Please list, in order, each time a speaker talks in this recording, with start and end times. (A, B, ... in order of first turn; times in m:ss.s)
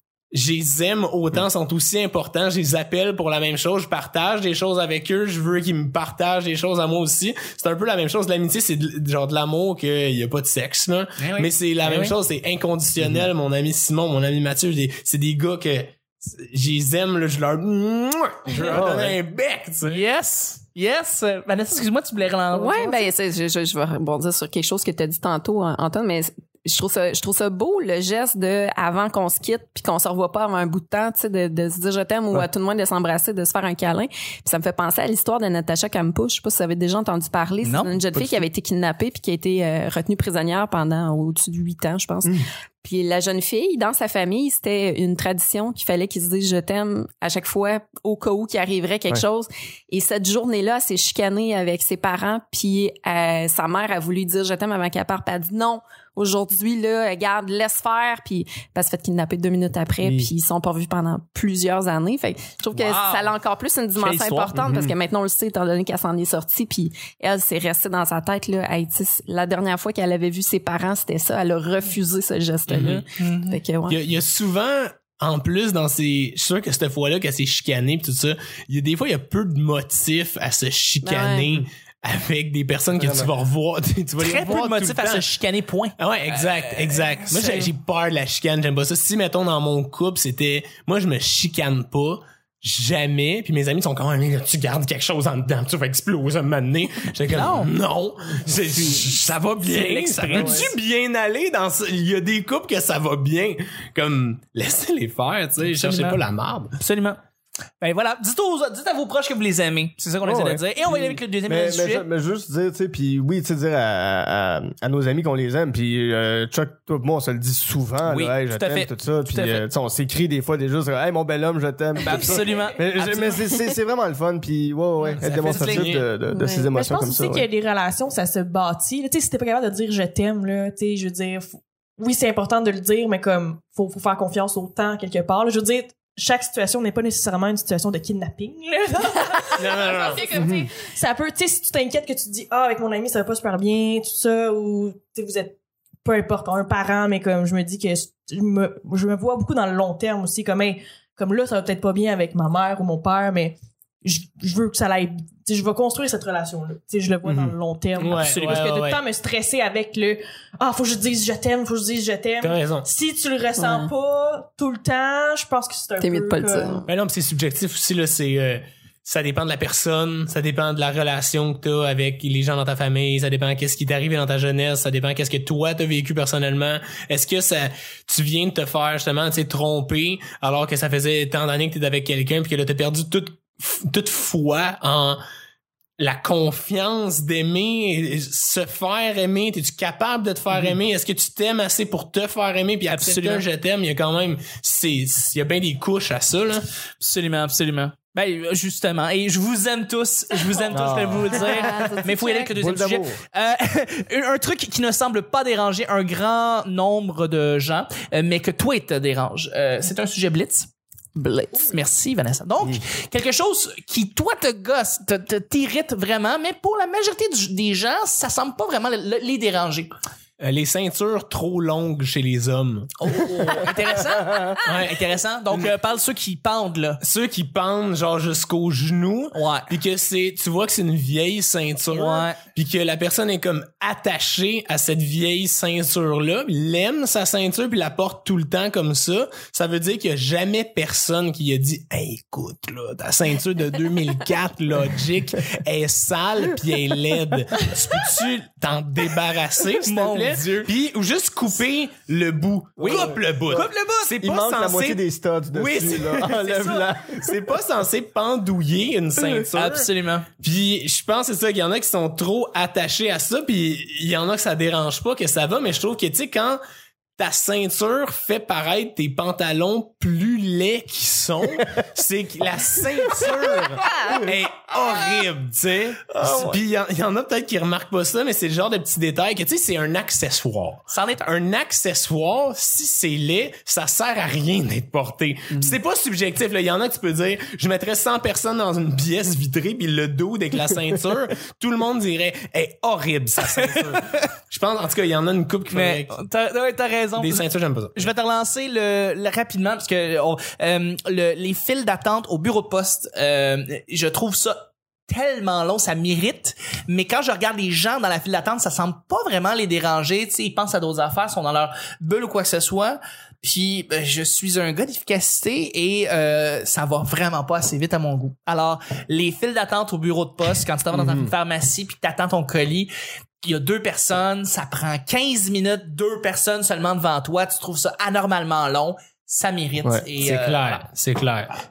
0:00.3-0:20.0 A
0:11.2-0:12.2 B
0:13.0-0:13.3 C
0:18.5-0:18.8 B
0:18.7-0:19.2 C
0:19.8-0:23.1 B
0:22.5-1:14.0 D
0:37.6-0:38.0 B
0:38.2-0:38.4 C
1:00.0-1:00.3 C
1:02.8-1:03.3 B
1:04.0-1:04.7 B
1:04.6-1:05.0 C
1:12.7-1:13.0 A
1:13.2-1:13.6 B
1:13.9-1:25.3 A
1:21.0-1:21.5 D
1:23.0-1:23.3 C
1:24.2-1:27.7 B
1:26.0-1:46.8 A
1:37.3-1:37.7 B
1:38.7-1:40.7 B
1:40.3-1:40.7 C
1:45.7-1:46.2 B
1:46.8-1:47.2 B
1:47.8-1:52.0 B
1:50.2-2:07.5 C
1:58.0-1:59.6 B
2:02.0-2:03.4 B
2:02.2-2:02.7 E
2:05.2-2:05.9 B
2:05.2-2:06.1 A
2:06.3-2:06.7 D
2:06.7-2:46.8 E
2:19.6-2:20.3 A
2:20.3-2:20.7 C
2:37.2-2:39.0 A
2:38.1-2:38.7 B
2:42.4-2:42.9 A
2:43.6-2:43.9 D
2:46.0-2:46.9 D
2:46.9-3:05.2 A
3:06.0-3:16.6 A
3:12.9-3:13.4 B
3:17.0-3:40.0 B
3:20.7-3:21.5 C
3:21.3-3:22.5 D
3:22.6-3:23.2 C
3:40.4-3:43.7 A
3:43.0-3:47.0 B
3:44.6-3:45.7 A
3:47.0-4:15.0 A
3:49.3-3:49.7 B
3:51.9-3:52.4 B
4:09.8-4:10.7 B
4:12.8-4:14.2 B
4:12.8-4:17.4 C
4:15.6-4:19.9 A
4:15.9-4:16.8 B
4:19.2-4:19.4 C
4:19.5-4:20.3 B
4:20.4-4:26.6 A
4:27.2-4:56.1 A
4:33.8-4:34.2 D
4:36.1-4:36.6 C
4:40.9-4:41.3 B
4:45.5-4:45.8 B
4:53.4-4:54.2 B
4:55.7-5:22.9 B
4:57.2-4:58.1 A
5:20.9-5:21.3 C
5:23.4-5:30.8 B
5:30.2-5:31.5 A